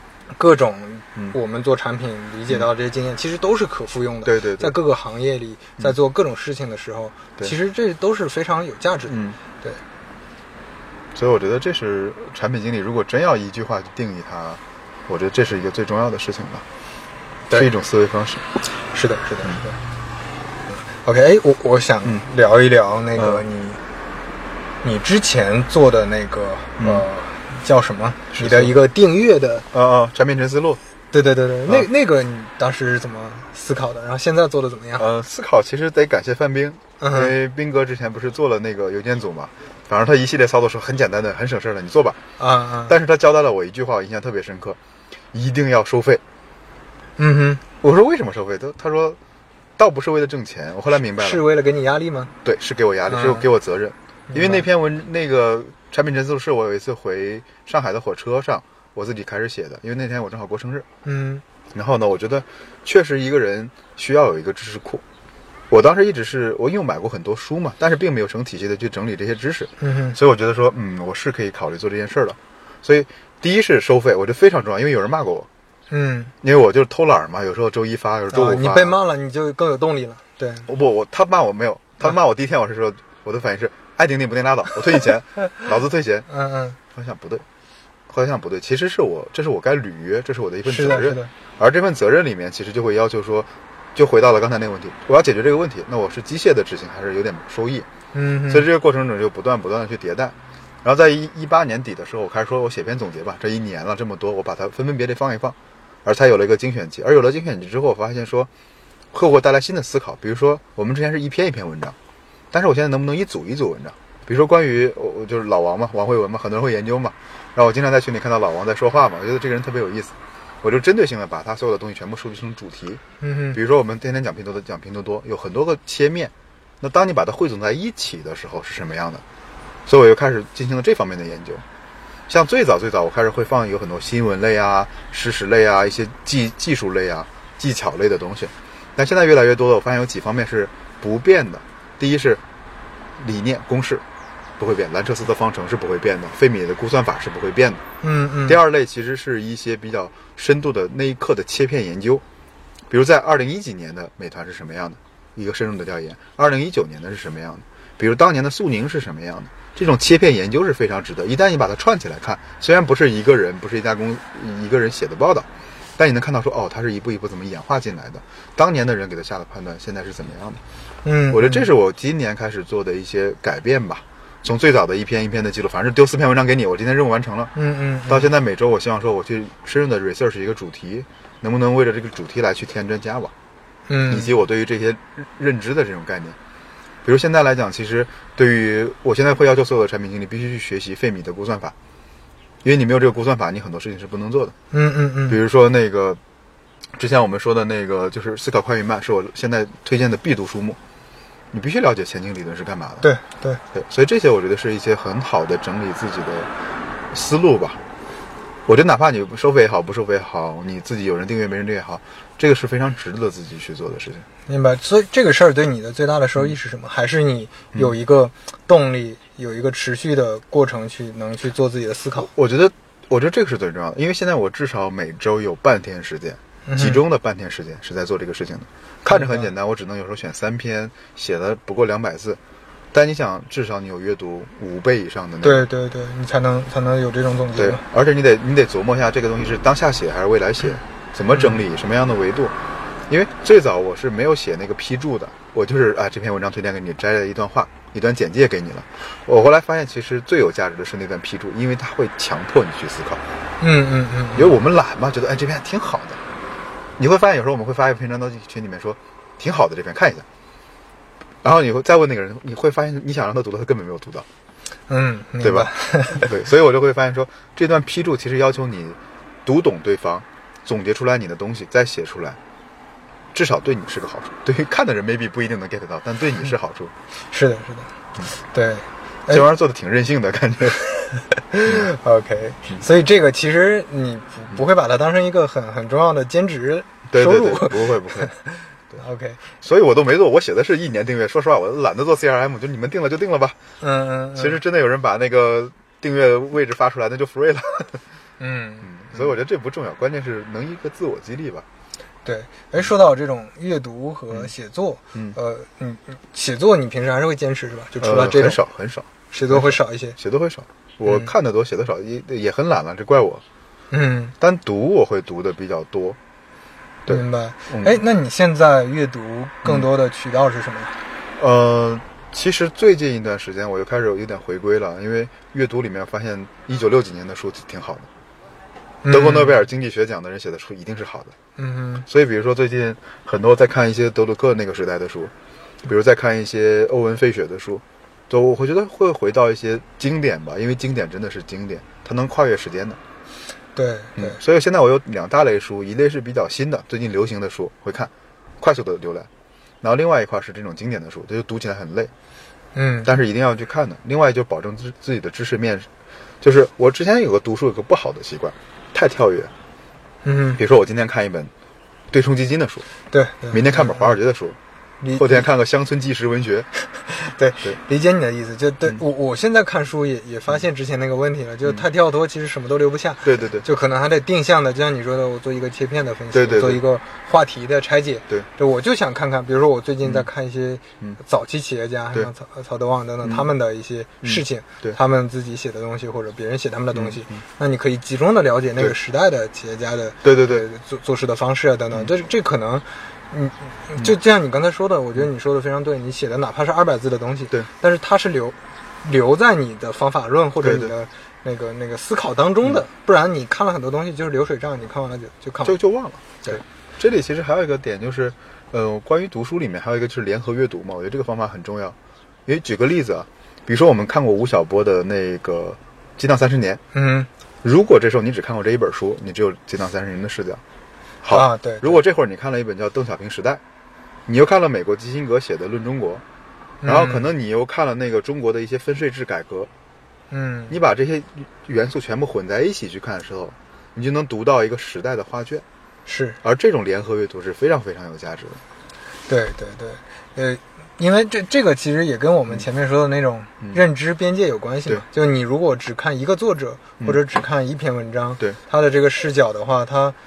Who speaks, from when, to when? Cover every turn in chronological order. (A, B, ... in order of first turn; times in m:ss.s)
0:00.3-0:09.8 A
0:04.2-0:04.7 B
0:09.1-0:09.4 B
0:11.1-0:16.6 B
0:17.5-0:18.4 B
0:18.9-0:19.8 A
0:20.7-0:23.8 A
0:23.2-0:23.4 B
0:24.8-0:29.7 A
0:26.8-0:27.0 B
0:28.3-0:28.7 B
0:29.7-0:30.8 B
0:31.1-0:35.1 A
0:35.0-0:42.2 B
0:37.0-0:37.3 A
0:42.4-0:42.9 A
0:42.9-0:44.8 B
0:45.3-0:46.2 B
0:47.2-0:47.6 A
0:47.8-0:49.2 B
0:49.8-0:51.4 B
0:51.2-0:52.3 A
0:52.4-1:00.8 B
0:53.1-0:53.4 A
0:54.3-0:54.7 A
1:01.0-1:01.4 A
1:01.7-1:05.0 B
1:05.7-1:15.5 B
1:09.8-1:10.2 A
1:15.9-1:16.3 A
1:16.4-1:18.9 B
1:18.3-1:20.7 A
1:20.7-1:26.3 B
1:26.3-1:26.8 A
1:26.9-1:27.4 B
1:28.1-1:37.9 B
1:30.6-1:31.3 A
1:38.1-1:38.6 A
1:38.5-1:48.5 B
1:49.1-1:52.0 B
1:52.5-2:03.0 B
2:03.2-2:03.6 A
2:03.5-2:09.2 B
2:09.8-2:11.6 B
2:12.3-2:22.4 B
2:23.2-2:24.0 B
2:24.6-2:27.8 B
2:28.0-2:28.6 A
2:28.4-2:32.2 B
2:32.9-2:50.6 B
2:51.0-2:51.7 A
2:51.3-2:57.5 B
2:57.5-2:58.3 A
2:58.1-3:03.3 B
3:03.9-3:04.3 A
3:04.1-3:06.4 B
3:07.0-3:11.7 B
3:12.6-3:14.6 B
3:14.7-3:15.4 A
3:15.3-3:16.2 B
3:17.0-3:20.8 B
3:21.5-3:23.1 B
3:23.0-3:23.6 A
3:23.7-3:26.5 B
3:27.1-3:27.8 B
3:28.6-3:34.2 B
3:34.5-3:42.3 A
3:42.2-3:52.4 B
3:46.6-3:47.0 A
3:49.0-3:49.5 A
3:52.9-3:55.6 B
3:55.4-3:57.8 A
3:57.6-4:02.5 B
4:03.1-4:13.2 B
4:13.6-4:14.5 A
4:14.3-4:16.2 B
4:17.0-4:20.2 B
4:21.4-4:24.3 B
4:24.9-4:26.3 A
4:25.4-4:32.4 B
4:33.3-4:36.9 B
4:37.3-4:39.4 A
4:39.3-4:40.8 B
4:41.5-4:49.5 A
4:47.1-4:48.3 B
4:49.6-4:53.6 B
4:53.8-4:54.6 A
4:54.3-4:58.0 B
4:58.4-4:59.3 A
4:58.8-5:01.6 B
5:02.2-5:08.6 A
5:08.0-5:13.4 B
5:09.3-5:10.2 A
5:11.0-5:11.3 A
5:13.9-5:14.3 A
5:14.4-5:16.2 B
5:17.0-5:17.9 B
5:17.1-5:21.0 A
5:21.4-5:28.1 B
5:29.0-5:29.6 A
5:29.1-5:31.3 B
5:31.6-5:32.1 A
5:32.1-5:35.3 B
5:35.8-5:43.0 B
5:43.7-5:44.4 A
5:44.2-5:49.3 B
5:49.8-5:52.1 B
5:52.7-5:53.1 A
5:53.0-5:55.9 B
5:56.4-5:59.5 B
6:00.2-6:00.6 A
6:00.6-6:01.5 B
6:02.1-6:02.8 B
6:03.1-6:04.1 A
6:03.5-6:04.6 B
6:05.0-6:05.5 A
6:05.1-6:06.7 B
6:06.9-6:45.8 A
6:13.2-6:13.6 B
6:16.3-6:16.8 B
6:23.2-6:23.5 B
6:24.2-6:25.0 B
6:26.9-6:27.3 B
6:30.2-6:30.6 B
6:40.6-6:40.9 B
6:45.6-6:52.0 B
6:52.5-6:56.8 B
6:56.9-6:57.3 A
6:57.6-7:00.6 B
7:01.2-7:03.6 B
7:01.3-7:02.0 A
7:04.3-7:06.2 B
7:06.8-7:07.2 A
7:06.8-7:09.7 B
7:10.3-7:10.8 A
7:10.7-7:15.6 B
7:16.0-7:16.4 A
7:16.4-7:18.6 B
7:19.3-7:30.2 A